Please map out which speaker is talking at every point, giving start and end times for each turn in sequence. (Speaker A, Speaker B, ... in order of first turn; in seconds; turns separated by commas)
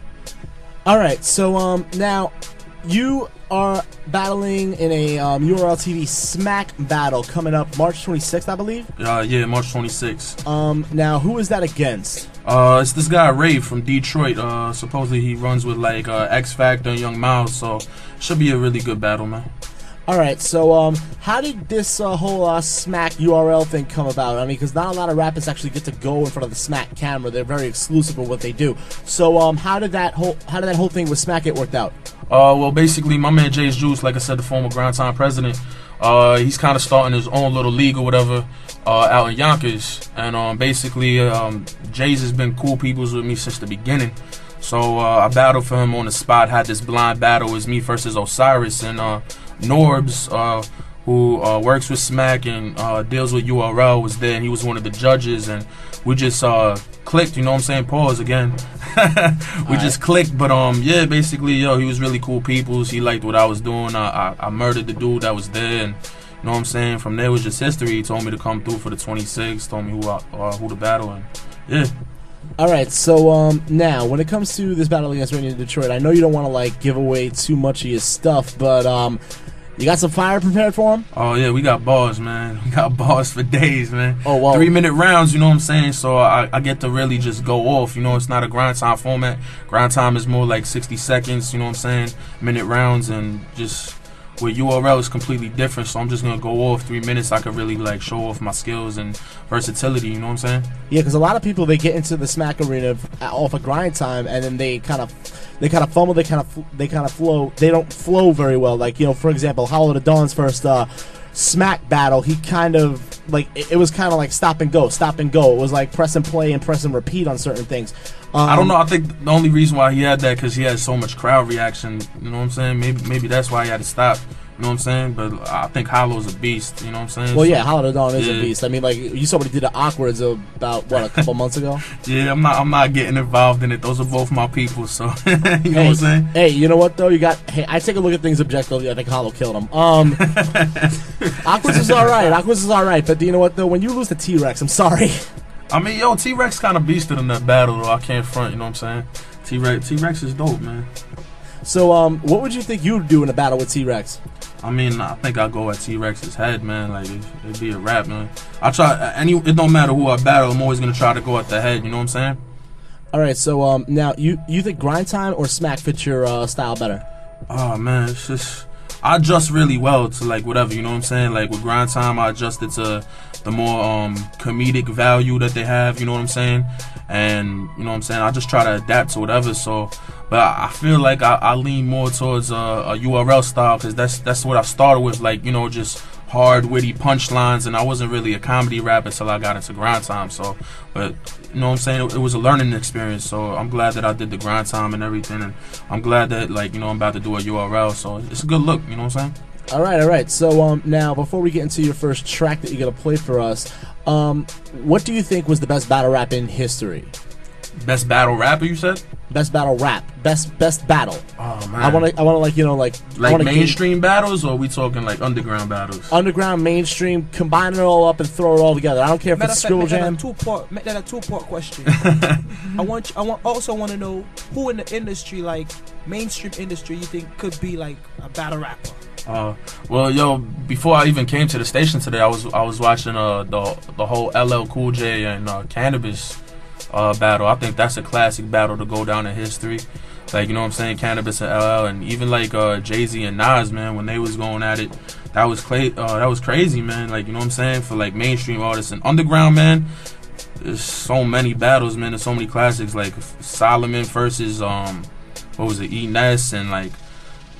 Speaker A: 0.9-8.9, Speaker B: 9.0-10.4, Speaker A: 10.5-12.3, Speaker B: 12.4-19.5, Speaker A: 20.1-31.9, Speaker B: 32.3-71.9, Speaker A: 59.7-60.0, Speaker A: 72.6-79.2, Speaker A: 79.8-81.0, Speaker B: 81.1-100.7, Speaker A: 84.2-84.7, Speaker A: 100.9-118.7, Speaker B: 118.5-127.6, Speaker A: 127.3-131.8, Speaker B: 128.2-128.5, Speaker B: 131.9-136.3, Speaker A: 135.7-140.2, Speaker B: 140.2-142.3, Speaker A: 141.4-145.2, Speaker B: 145.7-150.9, Speaker A: 151.7-154.2, Speaker B: 154.6-162.4, Speaker A: 163.1-167.1, Speaker B: 167.5-199.3, Speaker A: 199.7-207.1, Speaker B: 207.8-209.0, Speaker A: 209.3-211.2, Speaker B: 211.4-212.1, Speaker A: 211.8-213.8, Speaker B: 213.2-216.1, Speaker A: 216.1-220.2, Speaker C: 219.3-222.1, Speaker B: 221.9-222.4, Speaker C: 222.7-229.0, Speaker B: 229.3-236.4, Speaker B: 236.9-249.9, Speaker B: 250.6-257.0